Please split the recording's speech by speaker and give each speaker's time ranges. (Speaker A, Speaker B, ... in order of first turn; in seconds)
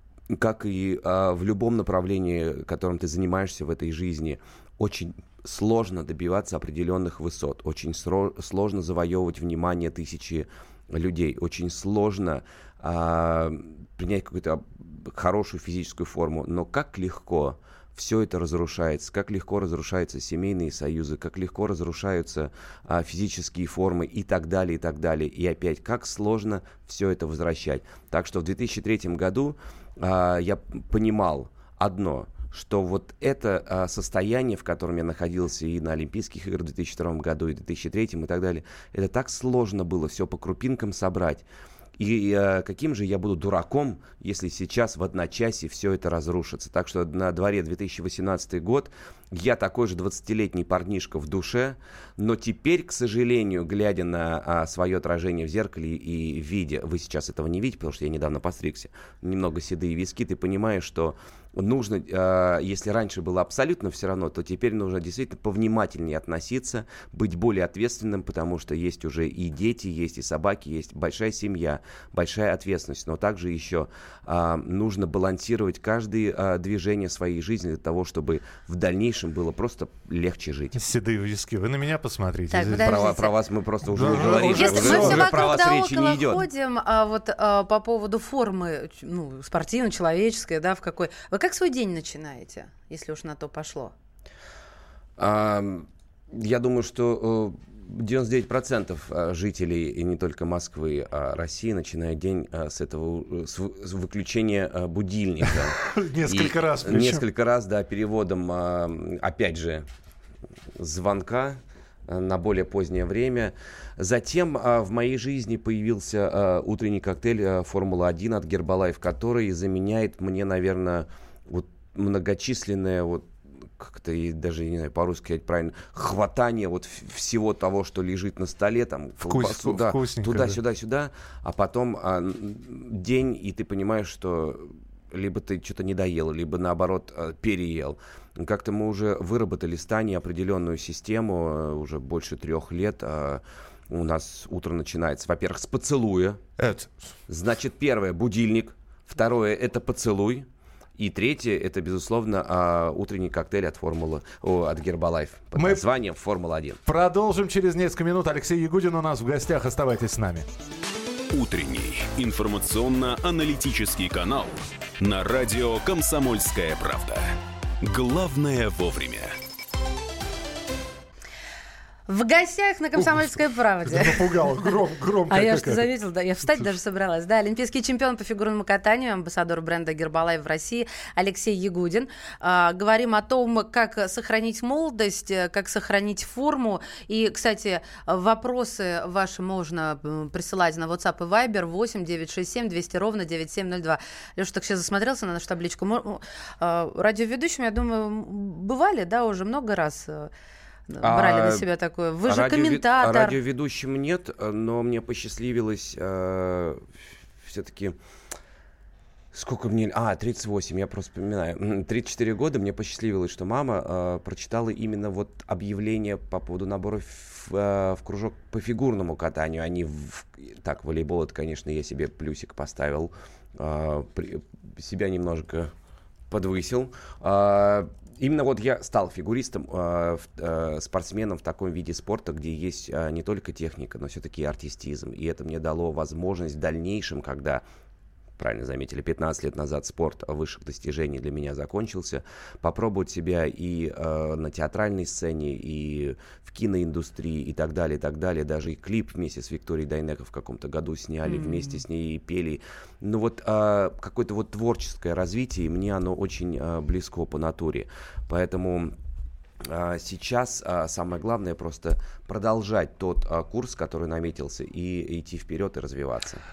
Speaker A: 0.3-41.5, 42.0-80.8, 82.8-86.4, 95.2-105.8, 106.3-109.9, 110.8-146.4, 147.3-156.8, 201.0-201.7, 202.3-206.9, 207.4-208.0, 209.3-225.7, 226.3-237.6, 238.4-258.9, 259.6-266.4
Speaker B: 80.8-83.0, 83.9-85.3, 105.6-107.2, 129.2-130.6, 146.6-147.1, 155.6-155.8, 156.9-160.5, 173.0-173.3, 173.8-175.9
Speaker C: 82.5-83.3, 84.1-93.9, 172.1-174.7, 175.3-200.3, 200.9-203.4, 251.2-251.8
Speaker D: 161.3-167.3, 167.8-169.3